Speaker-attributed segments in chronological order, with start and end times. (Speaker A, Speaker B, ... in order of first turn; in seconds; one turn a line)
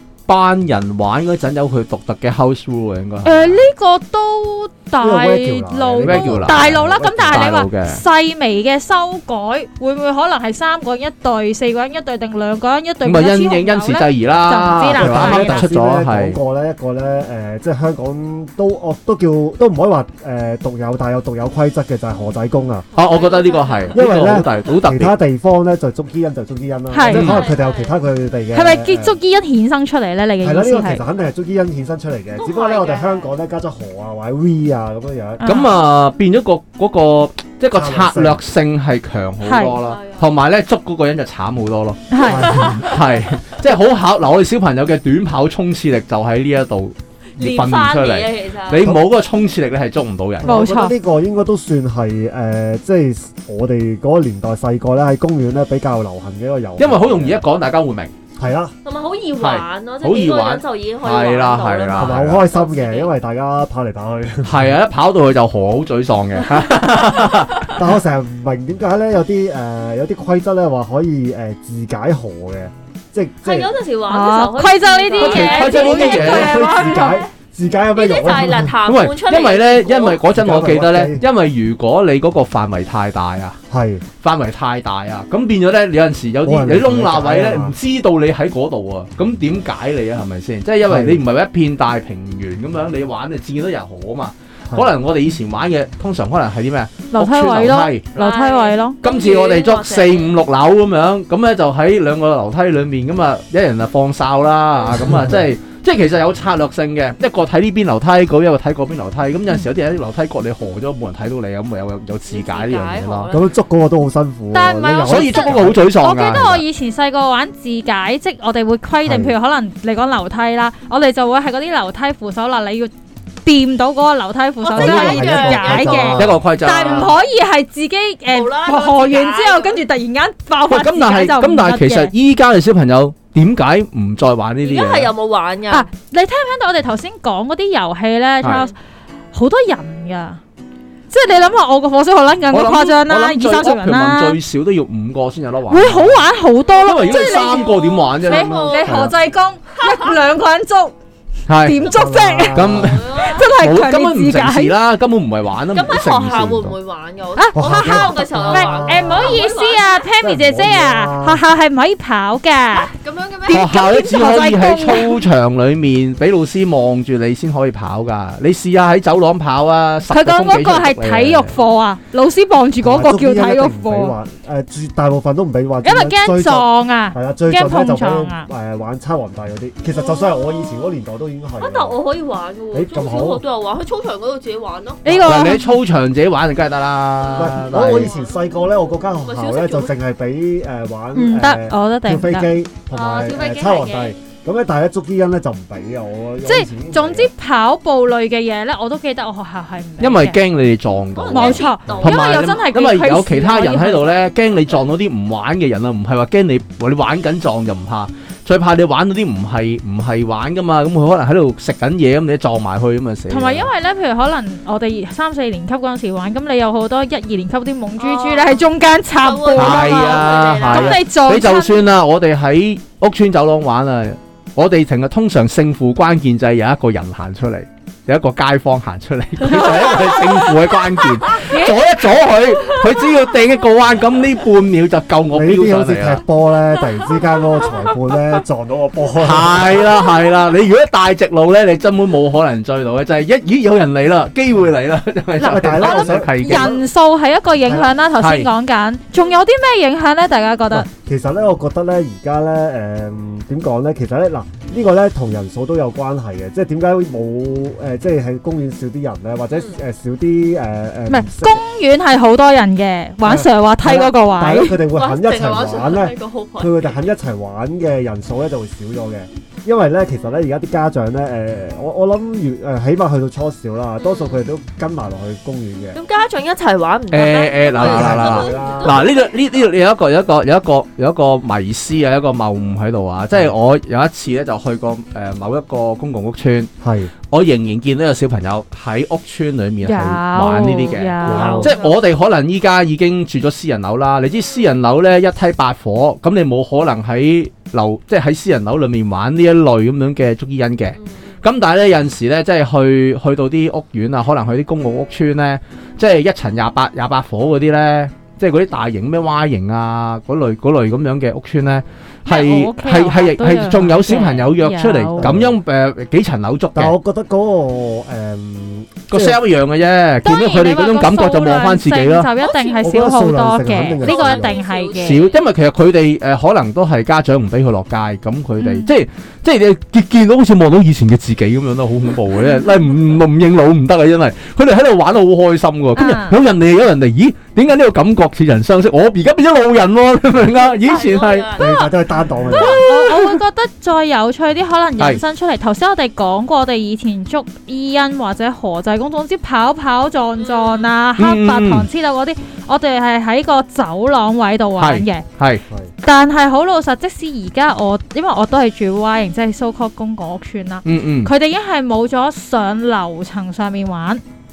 Speaker A: 0.3-3.6
Speaker B: 3.2-15.7
Speaker C: 5.0-7.5
Speaker A: 6.0-6.6
Speaker A: 7.3-8.0
Speaker A: 13.0-16.4
Speaker C: 14.9-22.9
Speaker D: 22.9-24.5
Speaker A: 22.9-25.2
Speaker C: 23.9-29.2
Speaker B: 26.9-27.4
Speaker A: 27.1-27.4
Speaker D: 27.1-28.0
Speaker B: 28.5-31.0
Speaker C: 30.4-35.5
Speaker D: 32.4-33.3
Speaker B: 35.4-35.7
Speaker A: 35.4-50.5
Speaker C: 37.7-38.4
Speaker B: 39.4-39.8
Speaker D: 39.8-40.3
Speaker B: 42.1-42.6
Speaker C: 42.2-42.9
Speaker D: 42.6-43.3
Speaker D: 47.4-48.9
Speaker C: 50.4-57.4
Speaker B: 50.4-50.9
Speaker A: 56.8-58.1
Speaker C: 58.4-58.7
Speaker D: 58.8-63.1
Speaker A: 59.4-62.4
Speaker C: 61.9-64.7
Speaker A: 64.4-67.7
Speaker C: 67.7-73.7
Speaker D: 73.4-77.2
Speaker B: 74.1-77.2
Speaker A: 75.2-76.5
Speaker C: 75.8-78.8
Speaker D: 77.9-80.2
Speaker A: 78.8-83.6
Speaker C: 80.3-81.2
Speaker C: 83.7-84.0
Speaker A: 84.2-98.1
Speaker C: 86.4-87.7
Speaker C: 90.8-91.2
Speaker B: 97.1-99.0
Speaker D: 98.1-100.4
Speaker A: 99.0-113.3
Speaker C: 105.0-105.4
Speaker D: 112.3-113.5
Speaker C: 113.3-115.9
Speaker B: 114.5-122.9
Speaker A: 115.0-116.6
Speaker C: 119.0-119.3
Speaker B: 123.4-132.1
Speaker D: 124.6-126.2
Speaker C: 124.8-127.1
Speaker A: 125.7-127.1
Speaker D: 128.3-129.8
Speaker A: 130.7-135.1
Speaker D: 134.6-135.9
Speaker B: 135.7-138.7
Speaker A: 138.4-138.7
Speaker B: 139.3-140.4
Speaker B: 141.1-144.4
Speaker A: 142.5-146.3
Speaker B: 145.7-150.9
Speaker D: 146.6-149.1
Speaker A: 146.8-148.9
Speaker C: 148.9-149.1
Speaker D: 149.8-150.1
Speaker A: 151.5-151.9
Speaker B: 151.6-154.7
Speaker C: 151.8-153.0
Speaker A: 152.5-156.7
Speaker D: 152.8-153.5
Speaker D: 155.7-160.1
Speaker B: 157.3-162.9
Speaker C: 157.5-159.4
Speaker C: 160.2-161.4
Speaker D: 162.8-164.3
Speaker A: 163.5-171.5
Speaker B: 163.7-165.2
Speaker B: 170.1-174.1
Speaker C: 172.8-182.0
Speaker B: 175.8-178.5
Speaker D: 179.9-180.9
Speaker D: 181.6-185.5
Speaker C: 182.7-183.4
Speaker B: 185.0-185.7
Speaker A: 185.2-188.1
Speaker D: 187.2-188.5
Speaker C: 187.3-197.3
Speaker D: 189.2-189.9
Speaker B: 191.1-192.5
Speaker D: 192.9-194.2
Speaker B: 196.4-200.4
Speaker A: 200.0-213.7
Speaker D: 201.1-202.8
Speaker B: 201.3-204.2
Speaker B: 213.3-221.7
Speaker D: 218.0-221.0
Speaker A: 219.5-236.2
Speaker B: 229.4-230.5
Speaker B: 231.3-231.8
Speaker C: 235.3-240.0
Speaker A: 239.2-246.8
Speaker C: 245.4-246.8
Speaker B: 245.4-250.9
Speaker C: 247.6-247.9
Speaker A: 248.2-248.5
Speaker C: 250.7-261.6
Speaker D: 259.5-259.8
Speaker B: 261.1-264.8
Speaker C: 263.2-276.0
Speaker D: 264.9-267.0
Speaker D: 274.0-274.4
Speaker D: 275.9-279.3
Speaker A: 277.1-286.7
Speaker C: 277.7-279.1
Speaker C: 286.8-287.1
Speaker A: 287.3-316.9
Speaker B: 289.8-291.7
Speaker D: 291.2-292.0
Speaker C: 291.2-291.8
Speaker D: 300.9-301.3
Speaker B: 312.2-315.3
Speaker C: 315.2-315.6
Speaker C: 316.7-319.4
Speaker A: 319.1-322.3
Speaker B: 320.2-325.3
Speaker D: 322.4-323.1
Speaker C: 322.8-324.6
Speaker D: 323.9-325.4
Speaker A: 325.0-341.5
Speaker B: 328.6-328.9
Speaker B: 335.9-336.4
Speaker D: 340.5-341.9
Speaker C: 341.6-342.8
Speaker D: 342.5-342.9
Speaker B: 342.5-355.2
Speaker D: 350.4-350.9
Speaker A: 351.2-351.9
Speaker A: 354.8-355.6
Speaker C: 355.7-355.9
Speaker B: 356.0-364.2
Speaker A: 360.8-361.3